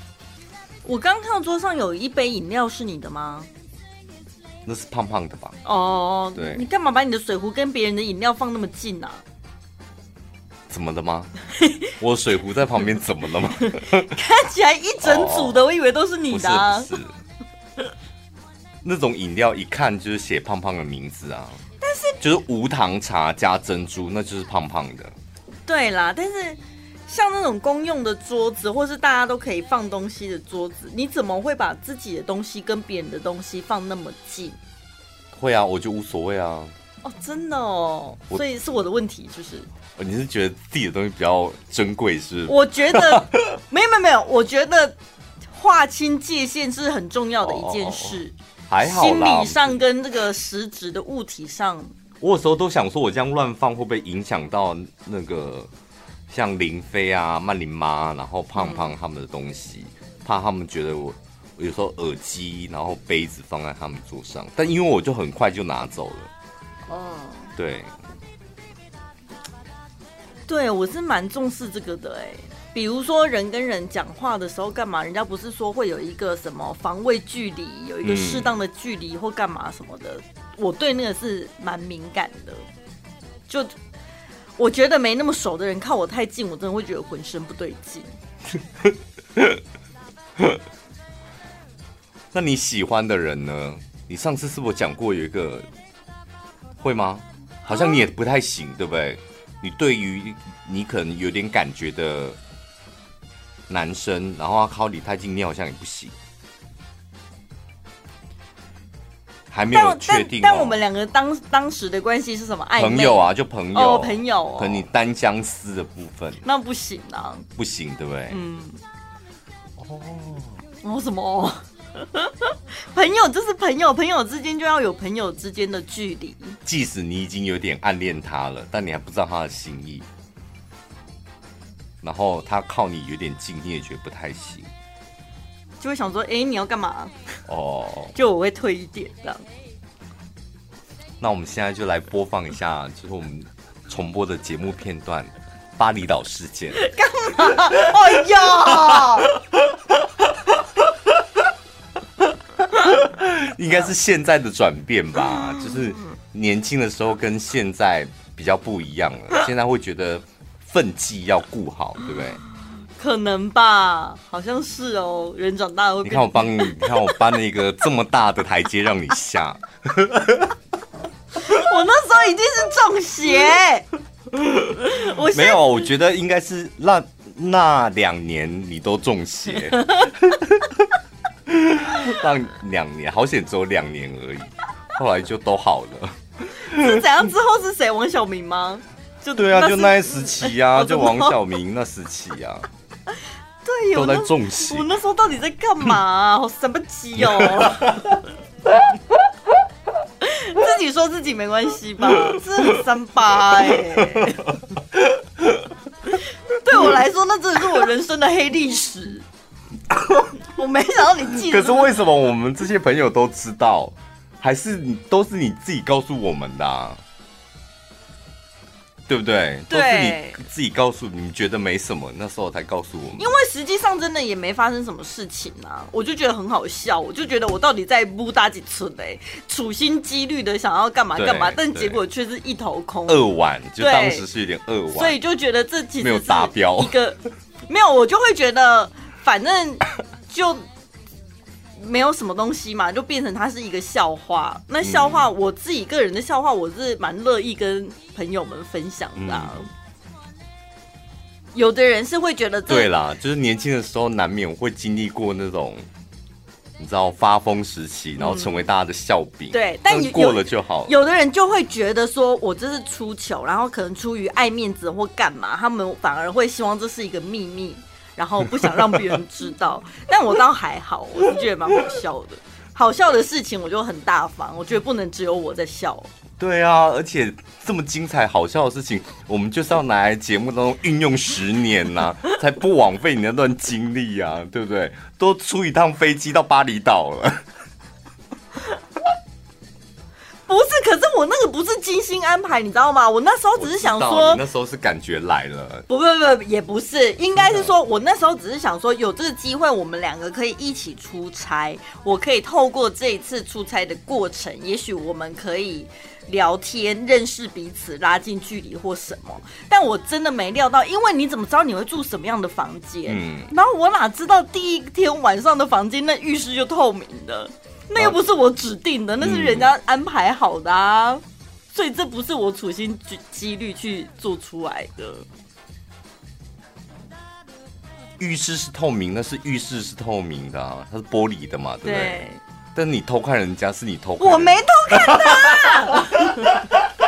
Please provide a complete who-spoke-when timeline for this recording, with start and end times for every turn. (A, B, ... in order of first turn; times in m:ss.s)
0:00.8-0:03.5 A
0:04.6-0:05.6 B
0:05.6-0:09.2 A
0:06.3-0:06.6 B
0:10.7-0:11.3 B
0:11.8-0:14.2 B
0:13.8-0:16.9 A
0:15.0-0:15.6 B
0:16.3-0:17.1 B
0:18.8-0:21.6 B
0:21.8-0:22.2 A
0:22.2-0:25.1 B
0:25.6-0:34.6 A
0:35.3-0:36.7 B
0:37.0-0:39.7 A
0:40.0-0:43.6 B
0:42.5-0:44.9 A
0:45.5-0:51.9 A
0:47.4-0:49.8 B
0:52.2-0:55.7 B
0:56.3-1:06.3 B
0:58.6-0:58.9 A
1:06.9-1:07.5 A
1:07.6-1:07.9 B
1:10.5-1:22.6 A
1:18.0-1:18.5 B
1:23.5-1:23.7 A
1:24.6-1:28.1 A
1:28.8-1:29.6 B
1:32.3-1:35.7 B
1:36.8-1:42.4 B
1:37.7-1:38.0 A
1:43.7-1:46.1 B
1:49.5-1:50.8 B
1:49.7-1:54.8 A
1:52.8-1:56.4 B
1:56.4-1:57.4 A
1:57.6-1:58.4 B
1:58.3-1:58.8 A
1:59.8-2:00.6 B
2:00.8-2:06.6 A
2:06.6-2:10.0 B
2:12.0-2:14.7 B
2:15.8-2:17.1 A
2:17.5-2:18.2 B
2:18.1-2:19.4 A
2:21.2-2:26.8 B
2:26.8-2:29.3 A
2:32.6-2:42.4 B
2:35.4-2:35.8 A
2:43.0-2:47.2 A
2:46.0-2:50.5 B
2:51.4-2:53.9 A
2:54.3-3:00.9 B
2:54.8-2:55.8 A
2:59.7-3:00.1 A
3:01.5-3:07.0 B
3:06.7-3:11.3 A
3:09.4-3:12.7 B
3:13.6-3:18.2 A
3:13.9-3:14.9 B
3:17.3-3:18.0 B
3:20.2-3:24.5 A
3:23.9-3:25.7 B
3:26.1-3:29.2 A
3:29.9-3:30.3 B
3:30.5-3:31.9 A
3:31.3-3:37.0 B
3:39.1-3:43.3 B
3:39.7-3:40.4 A
3:43.2-3:53.2 A
3:51.1-3:52.0 B
3:53.1-3:55.2 B
3:53.8-3:54.2 A
3:54.9-4:00.6 A
3:56.0-3:57.0 B
4:01.8-4:09.7 A
4:04.8-4:05.3 B
4:09.2-4:09.7 B
4:11.5-4:12.9 A
4:12.7-4:15.8 B
4:16.8-4:20.9 B
4:18.2-4:18.5 A
4:19.5-4:36.1 A
4:36.4-4:47.4 B
4:50.5-4:54.4 A
4:53.6-4:55.8 B
4:55.9-5:25.2 A
4:57.4-4:57.7 B
5:13.1-5:13.5 B
5:19.2-5:19.7 B
5:28.2-5:32.2 B
5:31.8-5:32.4 A
5:32.7-5:36.1 B
5:34.2-5:36.6 A